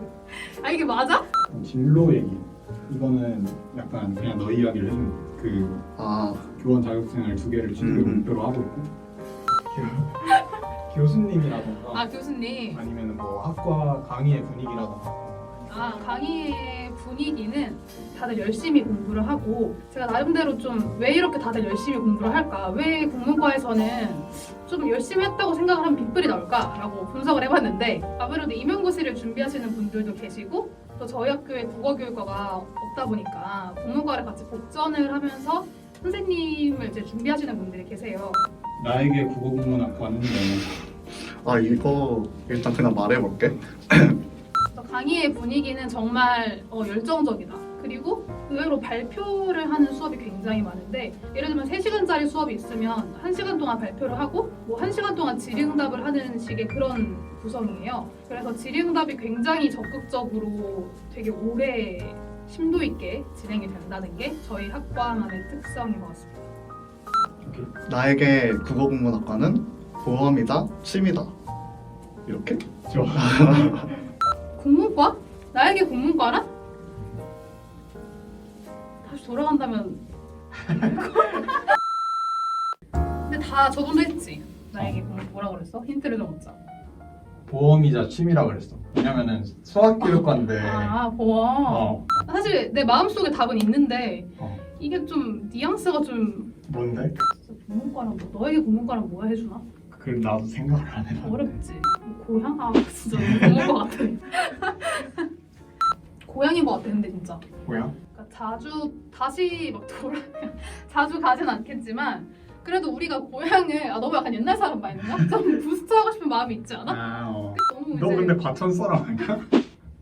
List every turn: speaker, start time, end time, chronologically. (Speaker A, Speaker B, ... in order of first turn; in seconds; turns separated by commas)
Speaker A: 0.3-1.3, Speaker B: 1.5-5.8, Speaker C: 6.0-6.5, Speaker B: 6.6-8.9, Speaker C: 7.8-8.3, Speaker B: 9.7-10.3, Speaker B: 10.9-12.1, Speaker A: 11.9-12.8, Speaker B: 12.7-15.7, Speaker A: 15.7-38.4, Speaker B: 38.8-40.7, Speaker C: 41.2-44.2, Speaker A: 44.7-66.4, Speaker B: 67.4-67.7, Speaker C: 67.8-71.3, Speaker C: 72.3-73.9, Speaker B: 72.9-73.9, Speaker A: 74.6-76.5, Speaker A: 79.0-80.0, Speaker A: 80.7-81.7, Speaker A: 83.3-86.6, Speaker B: 87.5-91.0, Speaker A: 90.0-96.5, Speaker B: 91.7-92.1, Speaker B: 96.7-97.2, Speaker A: 97.4-99.7, Speaker B: 99.9-101.5, Speaker A: 101.2-105.3, Speaker B: 103.1-103.7, Speaker A: 106.2-107.5, Speaker B: 107.6-107.9, Speaker A: 108.1-117.0, Speaker B: 116.9-119.5, Speaker A: 117.5-118.4